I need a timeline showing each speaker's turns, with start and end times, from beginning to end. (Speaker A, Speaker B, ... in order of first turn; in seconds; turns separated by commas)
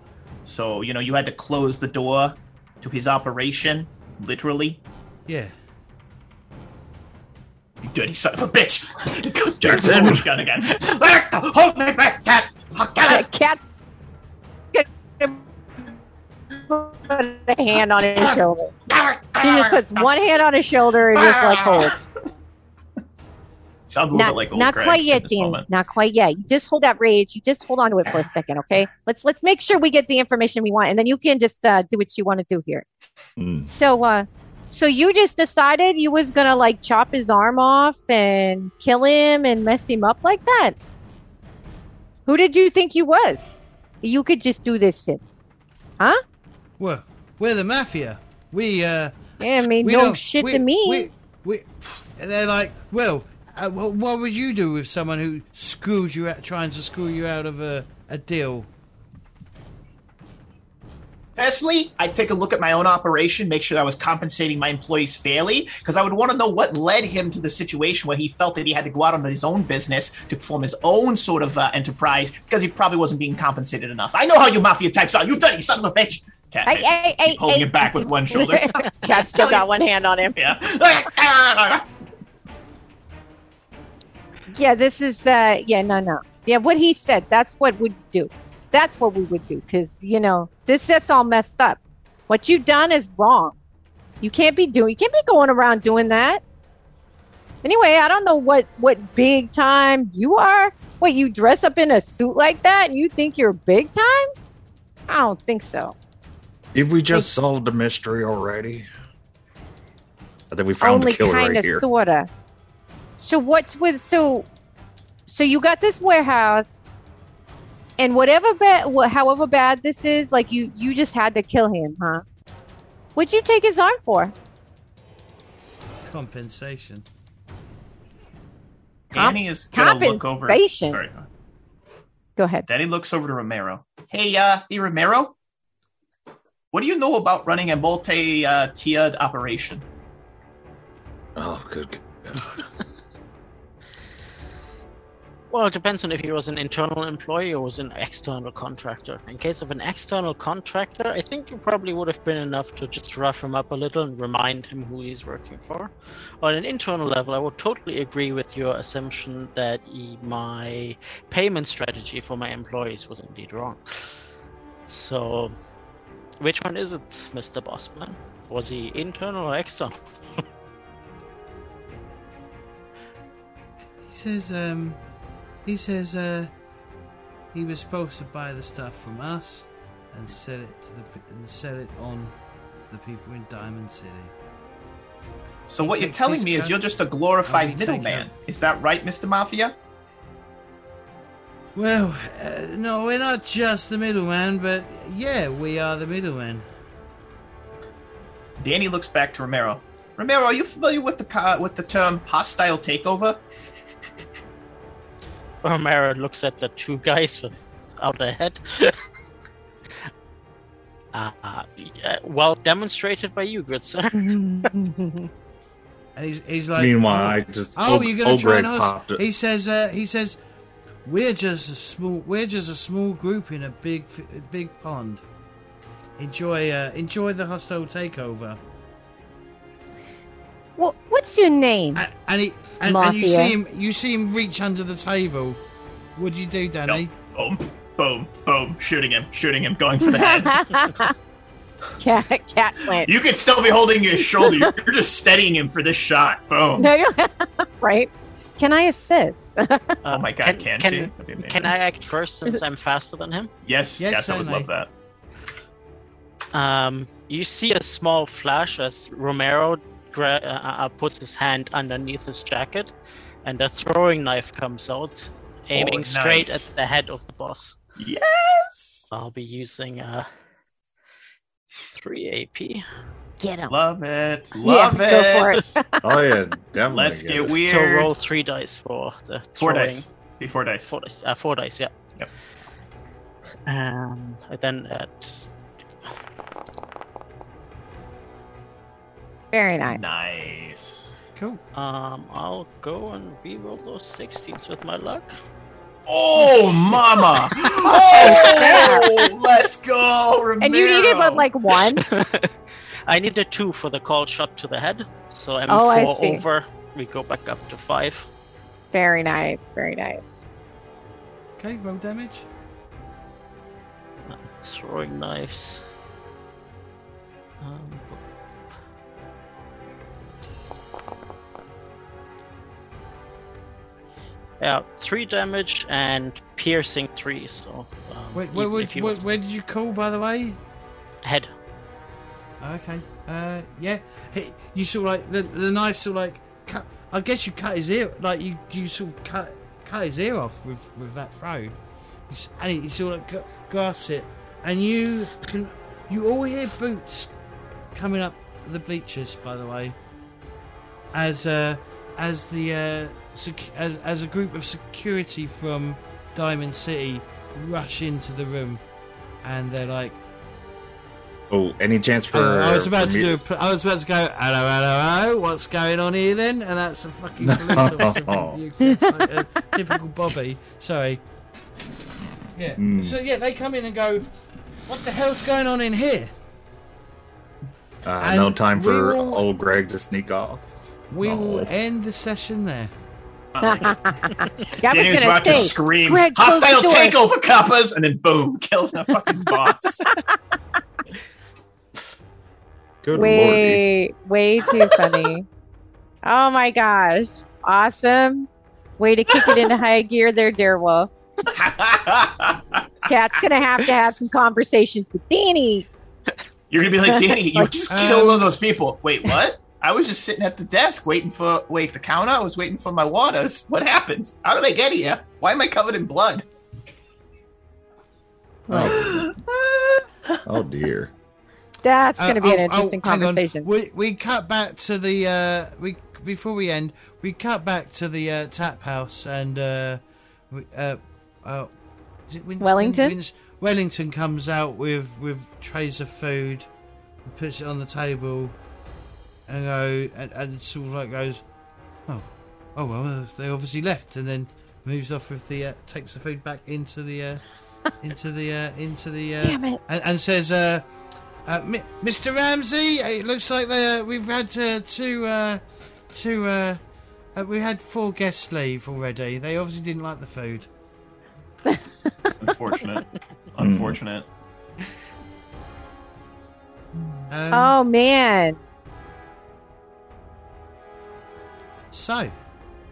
Speaker A: 0.4-4.8, Speaker B: 5.3-5.5, Speaker A: 7.8-13.3, Speaker C: 9.6-10.2, Speaker D: 13.1-13.6, Speaker D: 14.7-15.4, Speaker D: 16.7-18.8, Speaker A: 18.9-20.1, Speaker D: 19.4-21.9, Speaker A: 21.1-22.0, Speaker A: 23.9-25.6, Speaker D: 24.1-32.9, Speaker C: 33.4-33.7, Speaker D: 33.7-40.8, Speaker D: 42.2-45.2, Speaker B: 46.8-49.1, Speaker D: 49.4-51.1, Speaker B: 49.8-58.7, Speaker A: 61.4-79.7, Speaker D: 76.7-80.5, Speaker A: 80.3-81.8, Speaker D: 84.5-93.5, Speaker D: 94.2-96.4, Speaker D: 97.6-104.3, Speaker D: 105.1-106.0, Speaker C: 106.7-108.9, Speaker C: 110.5-111.8, Speaker D: 110.8-112.3, Speaker D: 113.2-114.5, Speaker D: 115.3-116.8, Speaker D: 118.0-122.2, Speaker D: 123.2-124.3, Speaker B: 126.0-127.0, Speaker A: 129.1-131.3, Speaker D: 129.1-131.0, Speaker D: 132.4-132.7, Speaker A: 132.7-135.3, Speaker A: 136.7-139.8, Speaker C: 141.3-142.6, Speaker E: 145.5-164.2, Speaker E: 164.8-165.5, Speaker E: 166.4-170.4, Speaker B: 174.1-175.0, Speaker B: 175.6-176.5, Speaker B: 177.5-182.3, Speaker B: 182.9-184.3, Speaker A: 185.7-189.7, Speaker B: 185.8-186.8, Speaker B: 187.4-188.3, Speaker B: 191.7-196.7, Speaker A: 198.6-203.4, Speaker E: 205.6-209.0, Speaker E: 211.1-214.7, Speaker D: 214.1-215.3, Speaker B: 216.2-220.4, Speaker C: 216.8-219.2, Speaker B: 221.0-225.2, Speaker B: 226.2-228.6, Speaker D: 230.8-232.0, Speaker B: 231.9-235.6, Speaker D: 232.8-233.5, Speaker B: 236.2-237.1, Speaker A: 236.8-240.7, Speaker D: 240.0-241.1, Speaker D: 242.0-243.1, Speaker A: 242.9-246.9, Speaker D: 244.4-244.7, Speaker D: 246.8-250.0, Speaker E: 250.0-253.5, Speaker A: 250.1-251.7, Speaker A: 253.6-254.9, Speaker B: 254.0-254.7, Speaker E: 256.5-262.9, Speaker E: 263.4-267.8, Speaker A: 265.7-266.7, Speaker A: 268.0-269.1, Speaker E: 269.1-270.3, Speaker E: 271.9-272.8, Speaker D: 273.4-273.7, Speaker A: 273.7-275.8, Speaker D: 274.6-276.1, Speaker C: 276.0-277.6, Speaker A: 276.9-278.1, Speaker E: 277.6-280.0, Speaker A: 279.6-280.9, Speaker E: 280.9-281.9, Speaker E: 283.6-285.4, Speaker D: 289.5-290.0, Speaker A: 289.9-291.1, Speaker E: 291.7-295.3, Speaker A: 296.1-301.5, Speaker E: 296.9-298.9, Speaker D: 297.9-299.2, Speaker D: 300.6-302.0, Speaker E: 301.8-302.5, Speaker E: 303.1-308.3, Speaker D: 305.7-306.4, Speaker D: 308.9-310.4, Speaker B: 311.6-312.4, Speaker E: 314.2-315.8, Speaker E: 317.6-318.2, Speaker E: 324.6-329.2, Speaker B: 328.3-330.6, Speaker E: 331.2-331.5, Speaker B: 332.6-341.8, Speaker B: 342.3-347.3, Speaker B: 347.9-349.9, Speaker B: 351.1-358.8, Speaker B: 359.4-360.2, Speaker C: 361.5-363.4, Speaker B: 362.3-371.2, Speaker C: 367.4-368.6, Speaker D: 368.8-369.3, Speaker B: 372.5-374.3, Speaker C: 372.8-373.1, Speaker B: 374.9-376.3, Speaker C: 378.0-380.6, Speaker B: 378.2-379.4, Speaker B: 381.1-382.9, Speaker C: 381.2-381.7, Speaker A: 383.5-384.0, Speaker D: 383.6-387.2, Speaker A: 384.8-390.1, Speaker C: 393.0-393.8, Speaker D: 393.1-395.4, Speaker A: 394.7-395.3, Speaker D: 396.2-401.1, Speaker A: 399.4-399.6, Speaker A: 401.4-403.1, Speaker D: 403.1-405.9, Speaker A: 406.7-416.4, Speaker D: 407.0-407.7, Speaker B: 407.9-408.5, Speaker D: 418.7-419.0, Speaker C: 418.7-419.3, Speaker A: 418.7-420.4, Speaker C: 420.4-421.1, Speaker D: 421.8-423.7, Speaker B: 422.2-431.7, Speaker B: 432.3-436.7, Speaker D: 432.6-433.1, Speaker B: 437.2-438.5, Speaker B: 439.5-441.4, Speaker B: 442.1-447.5, Speaker B: 448.0-450.9, Speaker D: 449.4-449.8, Speaker B: 451.4-456.8, Speaker B: 457.3-460.7, Speaker D: 461.7-462.3, Speaker A: 462.4-464.3, Speaker C: 463.6-464.0, Speaker B: 467.3-467.8, Speaker D: 467.5-468.6, Speaker B: 471.9-472.3